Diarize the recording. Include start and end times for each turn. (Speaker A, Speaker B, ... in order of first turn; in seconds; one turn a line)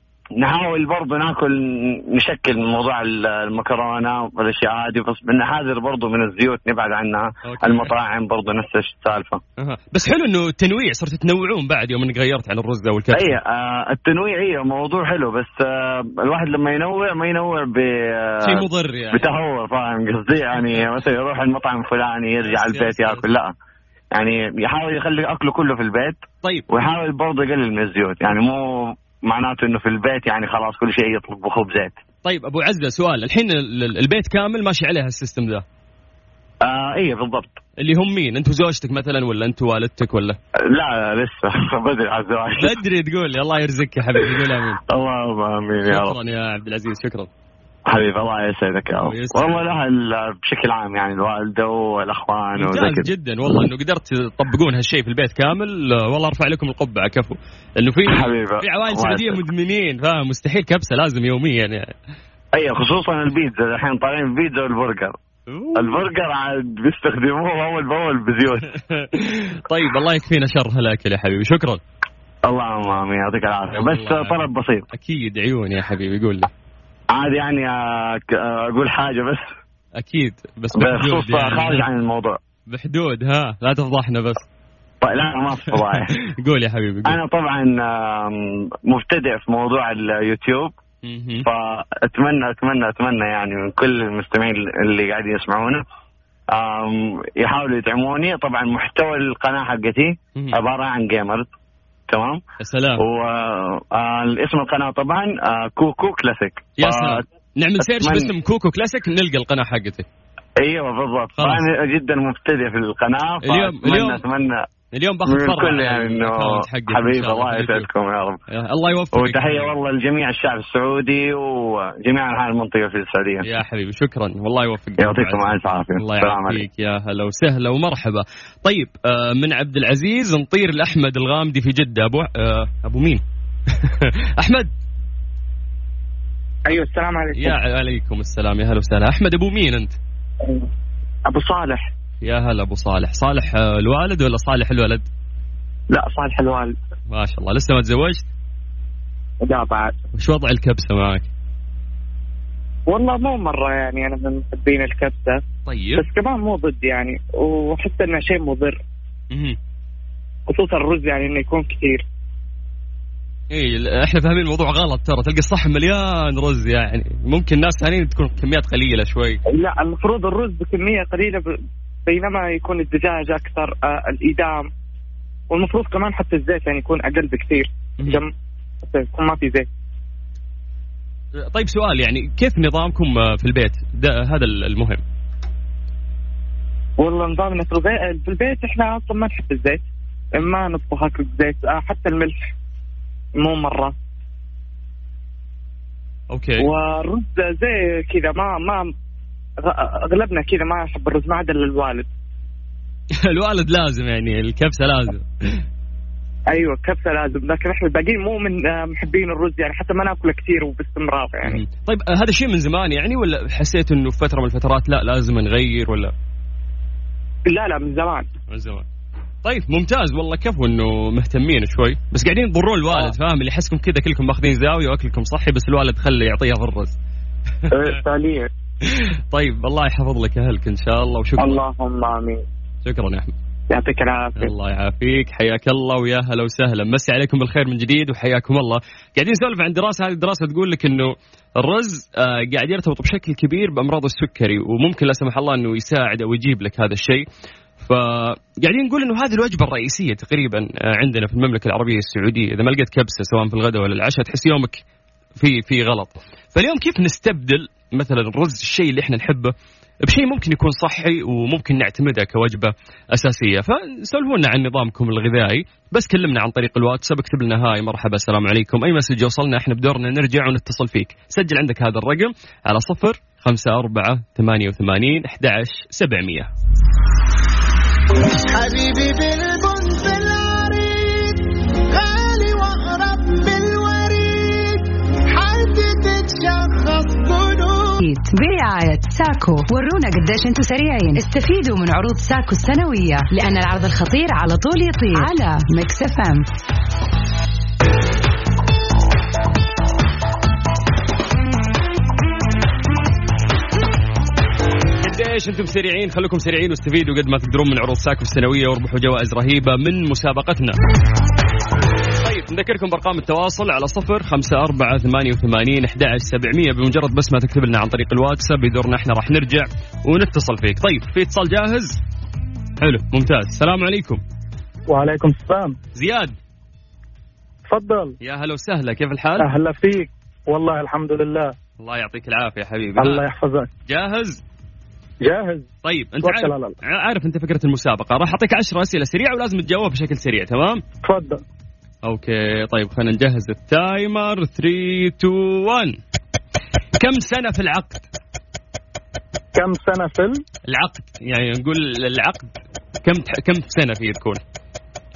Speaker A: 0.4-9.4
Speaker B: 7.4-7.9
Speaker B: 9.6-13.4
Speaker A: 13.1-23.5
Speaker B: 18.4-19.3
Speaker B: 22.4-23.2
Speaker A: 24.1-31.9
Speaker B: 26.4-26.7
Speaker B: 32.2-35.6
Speaker A: 36.6-37.6
Speaker B: 37.8-40.4
Speaker A: 40.7-42.7
Speaker B: 42.6-44.8
Speaker A: 44.9-46.1
Speaker B: 45.9-47.3
Speaker A: 47.9-53.1
Speaker B: 49.0-49.7
Speaker B: 52.6-61.9
Speaker A: 58.1-59.4
Speaker A: 62.5-65.1
Speaker B: 65.5-66.0
Speaker A: 65.8-68.7
Speaker B: 68.8-71.8
Speaker A: 72.5-74.8
Speaker B: 73.7-74.4
Speaker B: 74.9-76.5
Speaker A: 77.1-79.4
Speaker B: 80.0-81.8
Speaker A: 80.8-82.4
Speaker B: 82.7-84.5
Speaker A: 85.0-86.1
Speaker B: 85.7-87.2
Speaker A: 87.1-90.7
Speaker B: 91.0-91.5
Speaker A: 91.4-95.8
Speaker A: 96.5-101.5
Speaker A: 102.1-102.4
Speaker B: 102.6-103.0
Speaker A: 103.0-107.2
Speaker B: 106.8-110.1
Speaker A: 107.8-108.3
Speaker A: 110.6-114.6
Speaker B: 111.4-111.6
Speaker B: 113.4-114.2
Speaker B: 114.9-117.9
Speaker A: 115.2-118.4
Speaker B: 118.5-119.7
Speaker A: 119.1-123.5
Speaker B: 123.4-134.7
Speaker A: 125.0-126.6
Speaker C: 136.7-137.6
Speaker B: 137.3-139.9
Speaker C: 141.3-141.9
Speaker B: 142.2-145.1
Speaker C: 145.9-146.8
Speaker B: 147.1-148.3
Speaker C: 149.4-150.0
Speaker B: 150.2-151.3
Speaker C: 152.9-155.4
Speaker B: 155.7-156.0
Speaker C: 155.9-158.8
Speaker B: 159.3-159.6
Speaker C: 160.5-162.0
Speaker B: 163.5-169.4
Speaker C: 169.5-171.5
Speaker C: 172.1-174.7
Speaker C: 175.5-178.3
Speaker C: 178.8-179.7
Speaker B: 181.4-185.0
Speaker C: 187.0-192.4
Speaker C: 193.4-193.9
Speaker B: 196.3-196.7
Speaker C: 196.6-198.9
Speaker C: 199.6-202.1
Speaker B: 203.2-205.6
Speaker C: 206.5-211.6
Speaker B: 211.4-216.1
Speaker C: 217.5-218.3
Speaker B: 218.5-218.9
Speaker B: 219.4-226.9
Speaker B: 227.7-228.0
Speaker C: 227.7-228.5
Speaker B: 228.8-231.6
Speaker C: 231.4-232.4
Speaker B: 232.8-233.3
Speaker C: 233.7-234.5
Speaker B: 234.4-247.2
Speaker B: 247.8-254.8
Speaker B: 255.4-276.5
Speaker D: 278.5-288.0
Speaker E: 288.0-296.4
Speaker B: 305.0-310.8
Speaker B: 312.2-322.0
Speaker B: 322.8-324.2
Speaker F: 324.9-325.8
Speaker B: 325.9-326.4
Speaker F: 327.7-328.1
Speaker B: 328.2-329.5
Speaker F: 329.4-331.5
Speaker B: 331.8-333.2
Speaker F: 333.0-333.7
Speaker B: 333.9-334.4
Speaker F: 335.2-335.7
Speaker B: 335.8-340.8
Speaker F: 336.2-336.8
Speaker F: 341.0-341.4
Speaker B: 342.1-346.0
Speaker B: 347.0-348.1
Speaker F: 349.6-350.4
Speaker B: 350.7-352.5
Speaker B: 353.0-354.4